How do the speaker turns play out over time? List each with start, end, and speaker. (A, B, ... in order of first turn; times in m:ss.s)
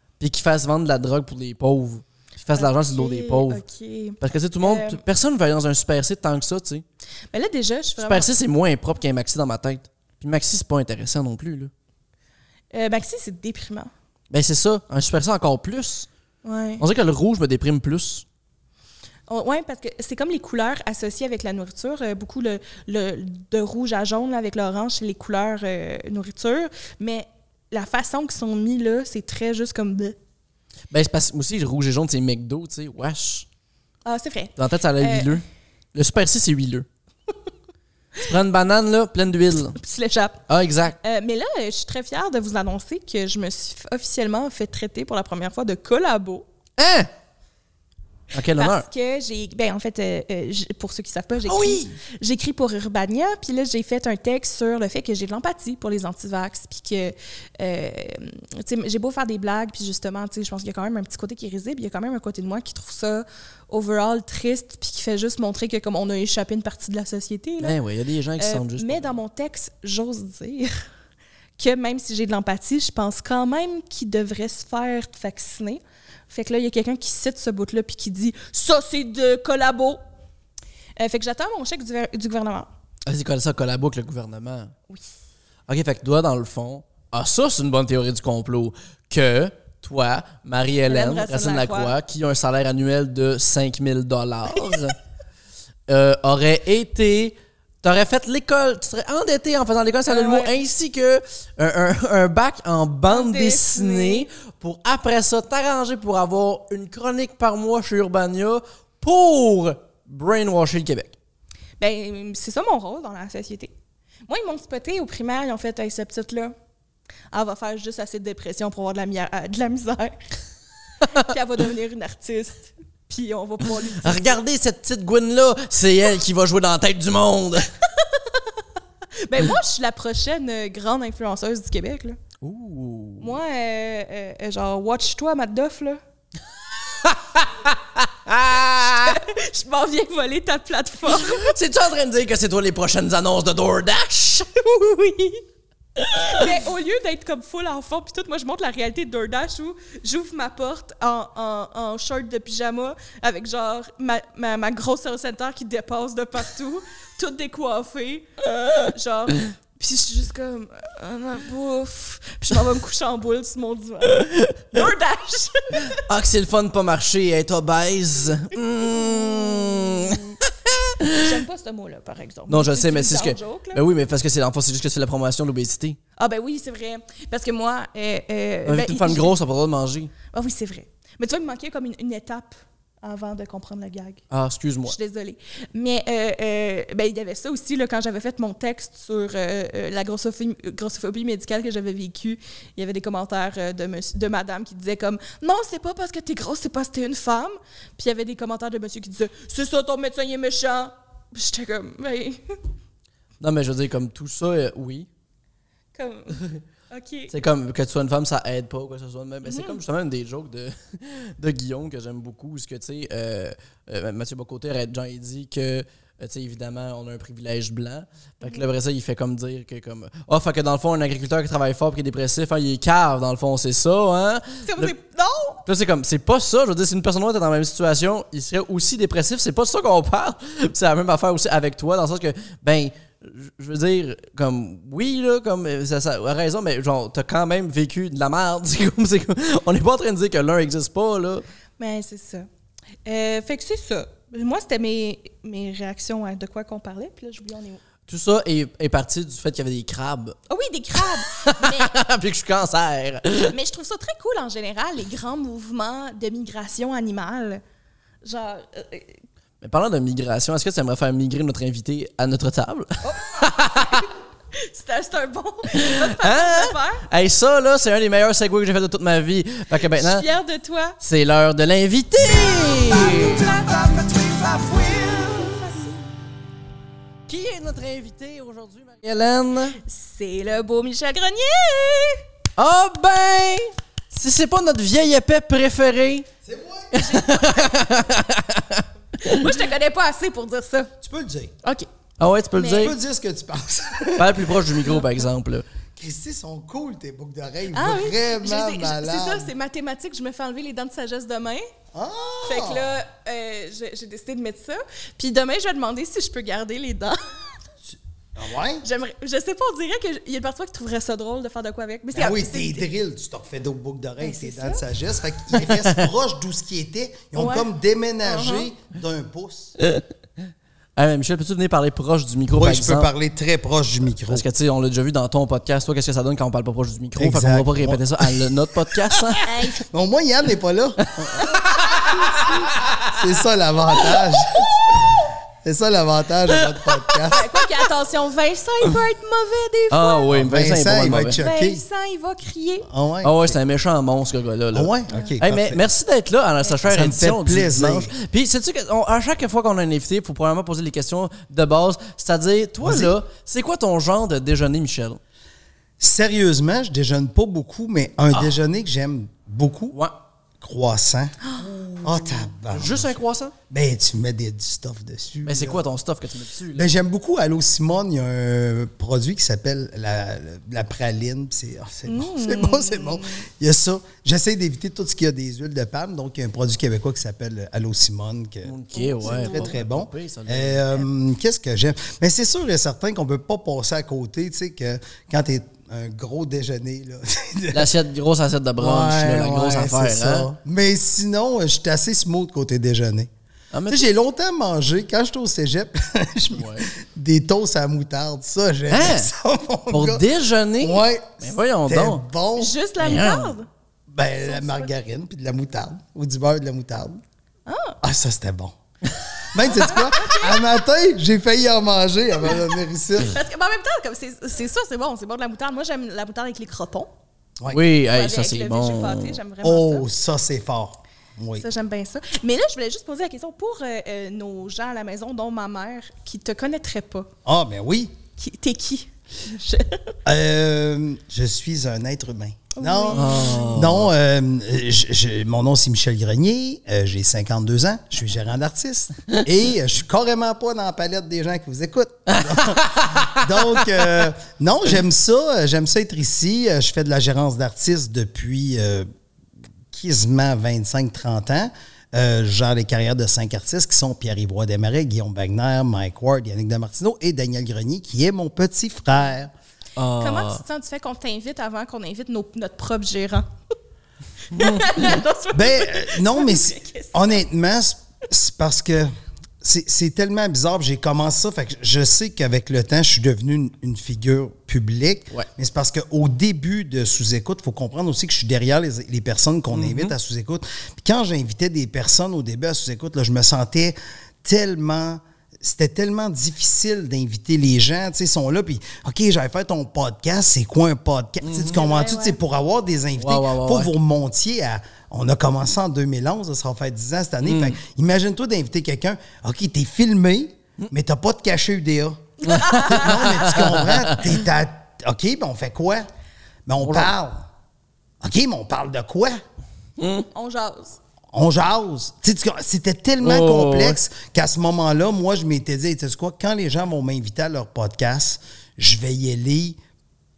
0:00.2-0:03.6 A
0:02.5-0:05.0 B
0:04.2-0:06.8 A
0:07.3-0:08.3 B
0:08.0-0:11.7 A
0:12.7-0:13.9 B
0:14.3-0:16.1 A
0:16.4-0:16.8 B
0:16.8-0:18.2 A
0:19.3-0:30.2 B
0:30.9-0:33.5 A
0:34.0-0:35.4 B
0:34.6-0:36.8 A
0:38.2-0:39.8 A
0:39.8-0:40.4 B
0:40.5-0:41.0 A
0:41.0-0:46.4 B
0:46.8-0:47.1 A
0:48.3-0:48.9 A
0:48.5-1:07.8 B
0:51.4-0:52.0 A
1:07.6-1:09.2 A
1:08.4-1:10.8 B
1:11.6-1:20.0 B
1:21.0-1:22.7 B
1:23.0-1:24.7 A
1:25.7-1:35.0 A
1:30.9-1:31.9 B
1:35.9-1:51.2 A
1:40.0-1:40.5 B
1:43.1-1:44.3 B
1:51.8-1:53.7 B
1:54.3-1:56.5 B
1:57.3-2:00.2 B
2:01.0-2:04.4 B
2:04.0-2:07.7 A
2:08.0-2:08.5 B
2:09.2-2:12.2 B
2:12.4-2:13.3 A
2:13.2-2:16.0 B
2:16.8-2:19.2 A
2:18.7-2:21.5 B
2:21.1-2:24.7 A
2:24.7-2:25.4 B
2:26.0-2:26.5 A
2:26.3-2:46.0 B
2:45.9-2:51.3 A
2:49.0-2:50.2 B
2:51.1-2:53.8 B
2:52.5-2:56.0 A
2:56.2-2:59.4 B
2:58.7-3:00.1 A
3:00.3-3:04.2 B
3:04.3-3:05.0 A
3:04.8-3:22.5 B
3:23.4-3:25.1 A
3:26.0-3:27.3 B
3:27.3-3:44.9 A
3:29.4-3:29.8 B
3:44.6-3:45.6 B
3:45.6-4:01.4 A
4:01.8-4:02.5 B
4:03.0-4:07.8 B
4:08.1-4:10.4 A
4:10.5-4:11.9 B
4:10.9-4:13.5 A
4:13.5-4:17.6 B
4:18.2-4:19.2 B
4:19.6-4:24.0 A
4:23.0-4:27.0 B
4:25.7-4:30.2 A
4:29.9-4:31.0 B
4:31.0-4:33.5 A
4:32.9-4:36.0 B
4:34.6-4:35.3 A
4:37.3-4:39.8 A
4:39.8-4:42.2 B
4:42.6-4:46.3 A
4:46.4-4:47.0 C
4:46.9-4:49.7 A
4:46.9-4:47.8 B
4:49.3-4:50.9 B
4:51.0-4:51.5 C
4:52.2-4:53.0 A
4:52.6-4:52.9 B
4:52.8-4:54.9 C
4:54.2-4:55.6 A
4:56.0-4:59.5 C
4:57.7-5:01.6 B
5:01.9-5:02.9 C
5:02.4-5:07.2 B
5:07.9-5:08.8 C
5:08.8-5:12.8 B
5:12.1-5:19.8 C
5:14.2-5:14.8 B
5:15.5-5:16.0 A
5:17.3-5:17.7 B
5:18.2-5:18.7 B
5:19.8-5:20.0 A
5:21.0-5:23.1 A
5:22.5-5:24.4 C
5:24.3-5:29.5 A
5:27.2-5:37.5 C
5:29.4-5:29.8 B
5:31.1-5:33.1 A
5:34.0-5:34.6 A
5:36.7-5:37.2 A
5:37.3-5:40.3 B
5:39.9-5:41.4 A
5:40.3-5:41.8 C
5:41.3-5:42.9 B
5:42.8-5:43.6 C
5:43.2-5:55.2 A
5:44.7-5:45.8 C
5:45.1-5:45.4 B
5:46.8-5:48.1 C
5:52.8-5:53.1 C
5:56.0-6:00.0 C
6:00.6-6:03.1 C
6:01.9-6:03.5 A
6:03.7-6:05.8 C
6:05.4-6:06.9 A
6:06.7-6:28.0 C
6:12.1-6:13.4 B
6:18.6-6:21.0 A
6:18.9-6:19.7 B
6:27.7-6:30.5 A
6:28.8-6:33.3 C
6:33.7-6:34.0 A
6:33.9-6:40.2 C
6:36.5-6:36.8 A
6:38.9-6:39.3 A
6:39.9-6:42.2 A
6:40.8-6:42.7 C
6:42.6-6:43.7 B
6:43.0-6:43.5 A
6:44.1-6:47.2 C
6:44.4-6:44.9 B
6:47.6-6:48.0 B
6:48.0-6:48.7 C
6:49.5-6:53.4 C
6:49.8-6:50.6 B
6:53.2-6:57.1 B
6:57.7-6:59.4 A
6:58.0-7:00.0 B
6:59.6-7:01.6 C
7:01.6-7:07.3 B
7:07.4-7:08.1 C
7:08.3-7:10.1 B
7:10.2-7:29.1 C
7:12.7-7:13.7 B
7:13.1-7:14.1 A
7:22.3-7:24.3 A
7:29.9-7:39.5 C
7:40.0-7:40.6 A
7:40.2-7:43.5 B
7:44.5-7:47.4 B
7:44.6-7:44.8 A
7:45.5-8:22.2 C
7:59.7-8:00.1 A
8:11.4-8:11.8 A
8:11.7-8:12.4 B
8:13.2-8:13.9 A
8:17.4-8:17.8 A
8:22.4-8:23.8 B
8:22.4-8:24.3 A
8:22.7-8:26.1 C
8:26.7-8:27.4 C
8:26.8-8:27.1 A
8:28.2-8:29.4 C
8:30.0-8:30.3 A
8:30.3-8:31.0 B
8:31.3-8:39.8 C
8:33.2-8:34.0 A